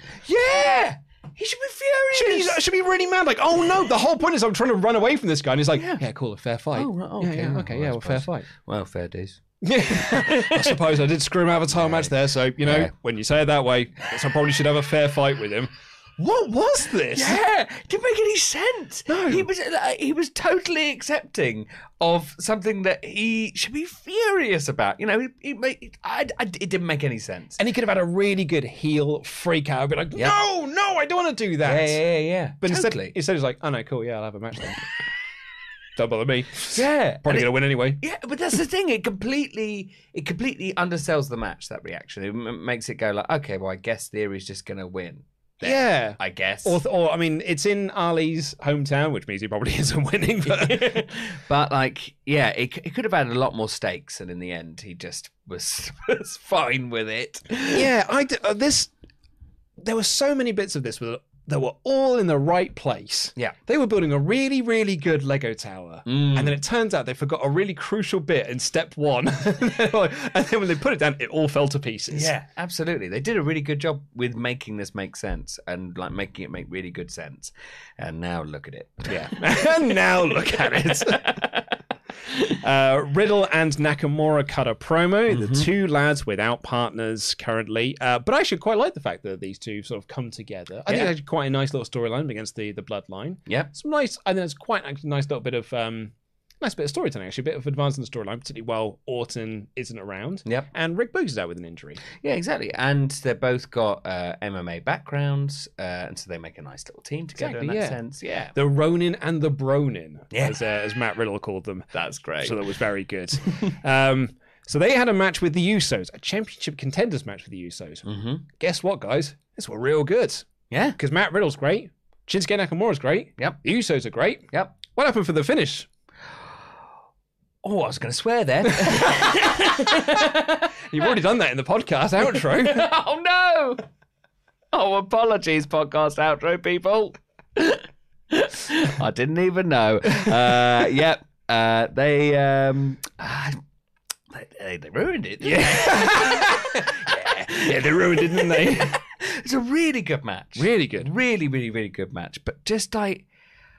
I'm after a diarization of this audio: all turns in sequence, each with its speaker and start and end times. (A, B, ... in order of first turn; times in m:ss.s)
0:00.2-0:02.6 A
0:02.1-0:08.5 B
0:05.8-0:06.0 A
0:06.7-0:09.4 A
0:09.6-0:17.4 B
0:10.0-0:10.8 A
0:11.7-0:12.9 A
0:17.1-0:27.6 A
0:19.1-0:19.5 B
0:27.6-0:32.0 B
0:31.6-0:33.2 A
0:32.6-0:34.8 B
0:36.0-0:38.0 B
0:36.7-0:46.8 A
0:45.6-0:51.1 B
0:50.4-0:57.9 A
0:57.7-0:58.9 B
0:59.8-1:12.3 B
1:06.1-1:06.6 A
1:12.1-1:19.3 A
1:19.1-1:21.4 B
1:20.5-1:21.6 A
1:22.5-1:42.0 B
1:25.3-1:25.7 A
1:30.9-1:31.1 A
1:42.2-1:48.6 A
1:47.4-1:48.0 B
1:48.5-1:51.9 B
1:50.3-1:50.6 A
1:51.9-1:52.6 A
1:52.4-2:00.4 B
1:58.0-1:58.4 A
2:00.7-2:01.0 A
2:01.0-2:05.9 B
2:07.6-2:11.1 A
2:08.8-2:10.3 B
2:10.9-2:12.9 B
2:12.2-2:13.8 A
2:14.7-2:23.6 A
2:24.3-2:33.2 A
2:25.4-2:29.0 B
2:30.6-2:31.1 B